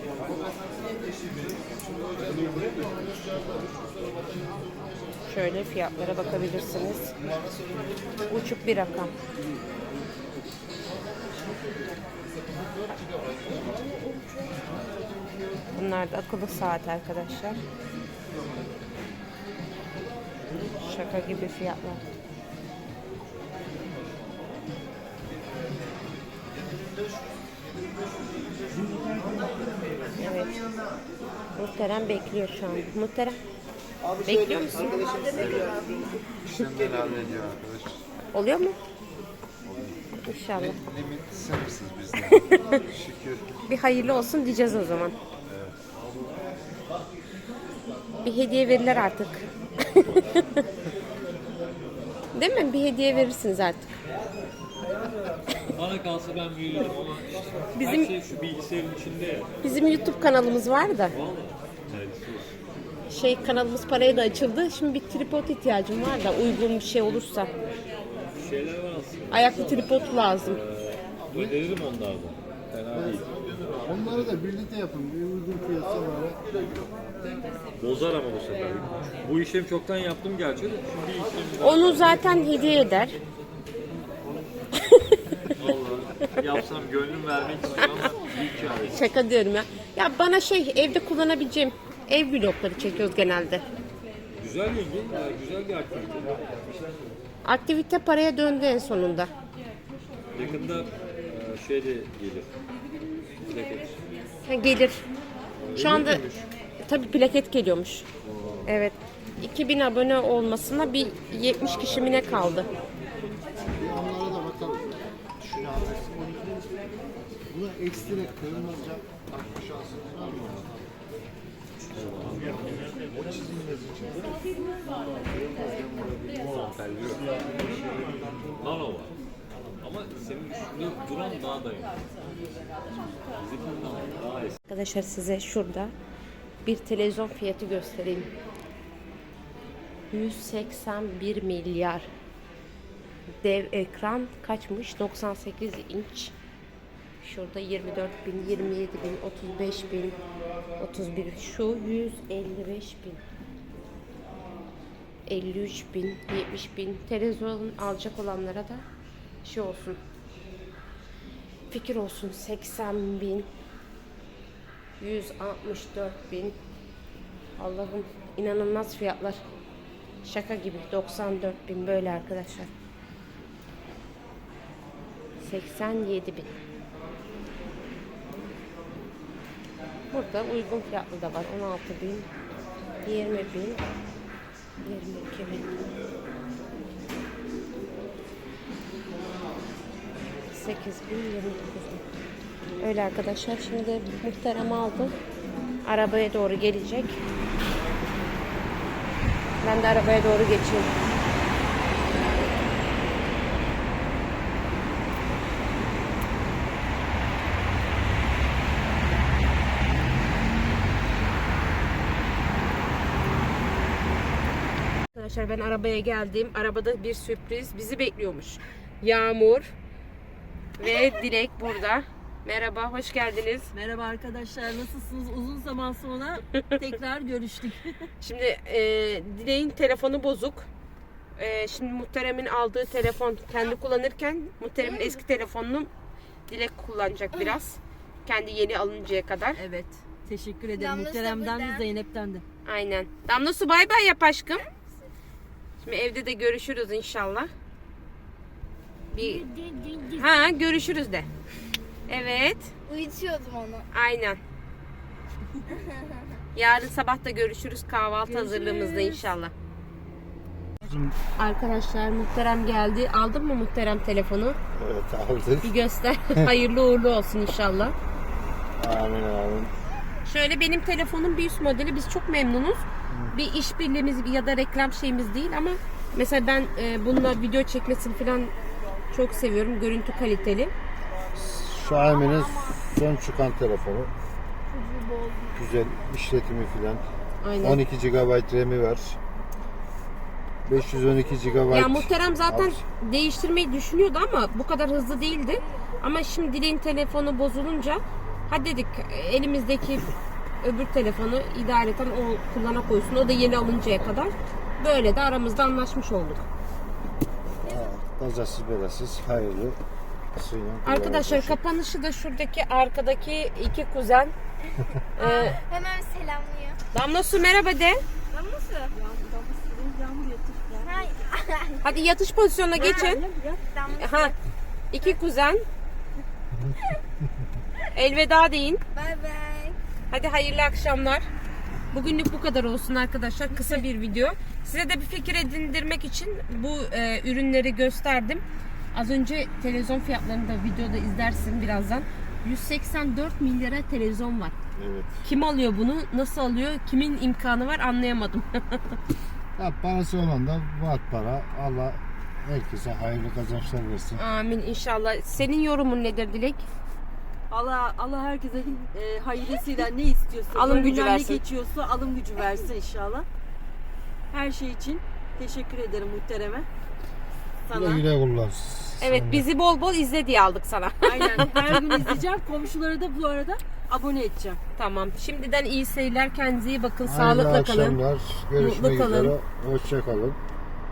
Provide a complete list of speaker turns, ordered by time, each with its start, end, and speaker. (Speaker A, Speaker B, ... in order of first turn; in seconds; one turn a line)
Speaker A: 3.0-3.3
Speaker B: 5.2-7.1
Speaker B: 8.3-9.1
Speaker B: 15.7-17.6
Speaker B: 20.8-22.0
Speaker A: 29.0-29.5
Speaker B: 30.1-30.6
Speaker B: 31.6-33.4
Speaker B: 34.2-35.0
Speaker A: 34.2-35.8
Speaker C: 34.9-35.8
Speaker D: 35.1-36.0
Speaker A: 36.4-38.0
Speaker B: 38.3-38.8
Speaker A: 39.6-40.0
Speaker B: 40.2-40.8
Speaker A: 40.6-43.5
Speaker B: 42.3-42.6
Speaker B: 43.7-45.2
Speaker A: 45.5-45.7
Speaker B: 48.2-50.6
Speaker B: 52.3-53.9
Speaker E: 55.7-59.5
Speaker B: 57.7-58.1
Speaker B: 59.6-61.1
Speaker E: 61.1-62.5
Speaker B: 63.1-67.5
Speaker E: 68.2-73.3
Speaker B: 69.3-70.6
Speaker A: 72.9-76.8
Speaker E: 77.8-82.4
Speaker B: 81.6-83.2
Speaker B: 84.8-85.2
Speaker E: 85.6-89.0
Speaker B: 88.9-93.7
Speaker E: 94.4-96.4
Speaker B: 97.4-99.3
Speaker E: 100.3-102.5
Speaker E: 103.4-104.0
Speaker B: 104.5-105.0
Speaker E: 105.7-106.0
Speaker A: 105.7-106.4
Speaker B: 105.8-106.2
Speaker B: 106.8-108.0
Speaker B: 108.7-112.7
Speaker A: 113.6-116.7
Speaker A: 117.5-120.8
Speaker E: 121.9-122.9
Speaker A: 122.0-126.4
Speaker E: 126.4-127.3
Speaker E: 128.6-129.1
Speaker E: 129.8-132.2
Speaker E: 133.2-134.6
Speaker B: 134.7-135.9
Speaker B: 136.6-138.3
Speaker B: 140.1-142.1
Speaker B: 143.4-146.3
Speaker B: 147.2-150.2
Speaker B: 150.8-153.2
Speaker B: 155.3-158.8
Speaker B: 159.4-160.0
Speaker B: 161.7-163.5
Speaker B: 165.0-166.6
Speaker B: 167.6-169.4
Speaker B: 170.2-172.7
Speaker B: 175.4-176.5
Speaker B: 180.1-182.3
Speaker B: 183.0-183.9
Speaker B: 184.8-185.8
Speaker B: 190.5-192.0
Speaker B: 192.8-195.1
Speaker B: 195.8-197.2
Speaker B: 199.6-200.9
Speaker B: 215.1-219.7
Speaker B: 220.8-223.7
Speaker C: 223.7-227.8
Speaker B: 228.2-230.7
Speaker B: 231.4-235.9
Speaker D: 234.8-235.2
Speaker B: 236.5-239.6
Speaker C: 239.6-242.4
Speaker D: 240.8-241.8
Speaker B: 242.7-244.7
Speaker B: 245.8-247.5
Speaker B: 249.1-249.4
Speaker C: 249.2-250.2
Speaker B: 250.1-251.3
Speaker B: 252.1-252.7
Speaker D: 252.9-253.9
Speaker B: 253.9-254.4
Speaker D: 255.7-256.3
Speaker B: 256.5-259.5
Speaker C: 258.3-259.2
Speaker A: 260.8-261.1
Speaker B: 261.4-264.6
Speaker A: 264.7-265.7
Speaker B: 265.6-267.9
Speaker A: 268.8-269.7
Speaker B: 270.2-278.5
Speaker A: 273.1-273.3
Speaker B: 279.1-280.7
Speaker A: 281.3-284.1
Speaker D: 281.9-282.8
Speaker D: 284.7-285.6
Speaker A: 285.5-287.0
Speaker B: 287.4-287.8
Speaker A: 287.6-289.2
Speaker A: 290.6-292.8
Speaker B: 291.7-306.4
Speaker A: 307.6-309.8
Speaker D: 307.6-307.9
Speaker A: 310.3-311.6
Speaker B: 310.8-314.3
Speaker B: 315.1-315.6
Speaker D: 315.2-316.8
Speaker B: 316.9-318.0
Speaker D: 318.3-318.9
Speaker C: 318.9-321.1
Speaker D: 320.8-321.9
Speaker B: 321.8-323.2
Speaker C: 322.8-323.6
Speaker D: 322.8-324.4
Speaker B: 323.9-324.3
Speaker B: 324.9-325.6
Speaker B: 327.9-328.8
Speaker D: 328.9-329.8
Speaker B: 330.1-331.2
Speaker B: 331.9-338.4
Speaker B: 338.9-344.5
Speaker A: 344.8-345.2
Speaker B: 345.2-349.0
Speaker A: 349.6-354.2
Speaker B: 354.1-356.7
Speaker C: 357.5-363.2
Speaker B: 360.5-361.4
Speaker C: 364.3-366.7
Speaker C: 367.6-368.0
Speaker A: 367.7-369.4
Speaker B: 369.0-371.7
Speaker C: 371.0-374.6
Speaker B: 374.8-378.0
Speaker A: 377.0-380.4
Speaker B: 378.6-379.3